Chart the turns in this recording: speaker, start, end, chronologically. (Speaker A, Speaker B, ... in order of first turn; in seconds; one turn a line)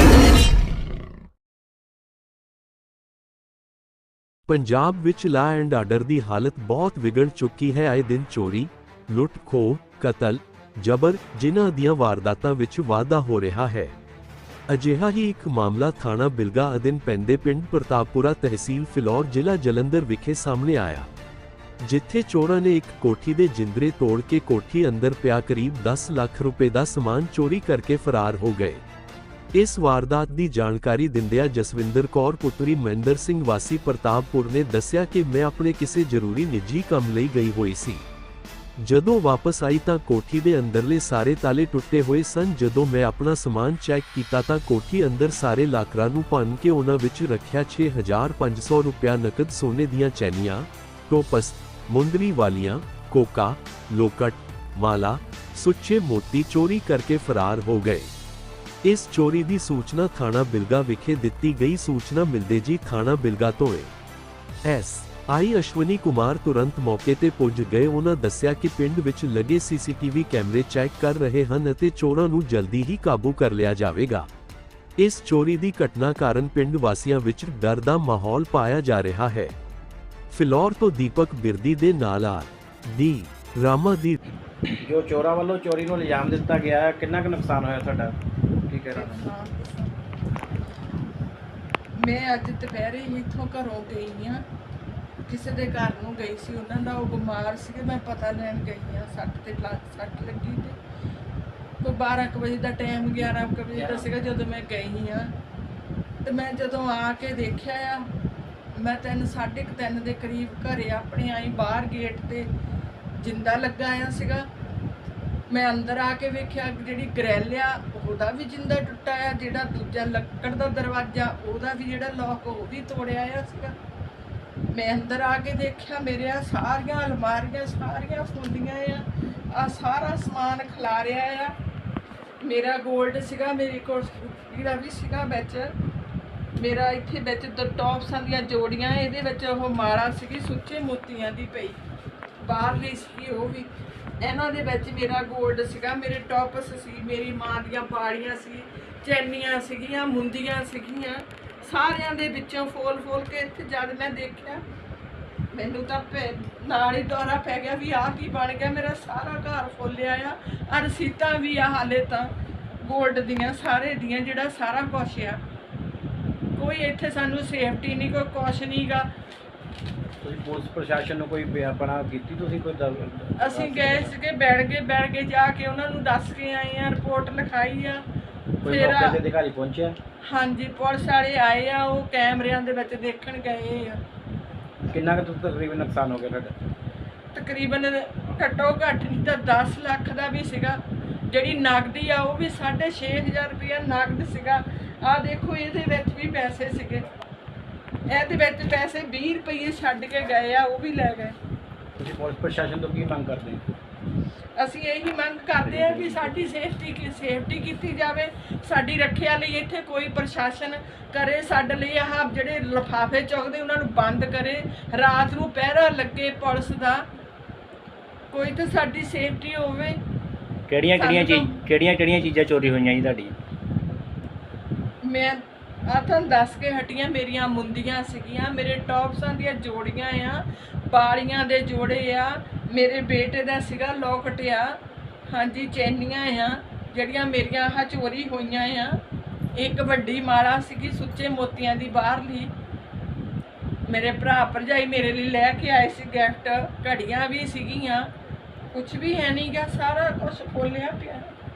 Speaker A: 4.5-13.9
Speaker A: 14.7-21.1
Speaker A: 21.8-28.8
Speaker A: 29.5-38.0
Speaker A: 38.8-58.1
Speaker A: 58.8-63.9
Speaker A: 64.6-74.3
Speaker A: 75.0-79.5
Speaker A: 80.3-84.2
Speaker B: 84.8-88.1
Speaker B: 88.7-89.2
Speaker C: 88.9-89.9
Speaker C: 92.0-94.4
Speaker C: 95.2-100.8
Speaker C: 101.8-105.3
Speaker B: 103.8-104.0
Speaker C: 106.2-108.1
Speaker C: 108.7-112.5
Speaker C: 113.2-114.5
Speaker C: 115.5-123.7
Speaker C: 124.7-131.5
Speaker C: 132.4-135.7
Speaker C: 136.6-141.8
Speaker C: 142.4-143.7
Speaker C: 144.2-154.6
Speaker C: 155.5-165.4
Speaker C: 166.5-169.1
Speaker B: 170.2-174.1
Speaker C: 173.4-178.0
Speaker B: 178.6-180.0
Speaker C: 178.6-179.2
Speaker C: 180.3-184.0
Speaker B: 184.8-186.5
Speaker C: 187.3-197.1
Speaker C: 198.1-201.3
Speaker B: 202.0-203.7
Speaker C: 204.6-217.0
Speaker D: 205.6-206.3
Speaker C: 218.3-220.0
Speaker D: 220.7-223.3
Speaker C: 220.9-221.6
Speaker C: 225.0-234.8
Speaker C: 235.3-239.0
Speaker C: 239.5-242.5
Speaker C: 243.9-248.1
Speaker C: 248.7-251.3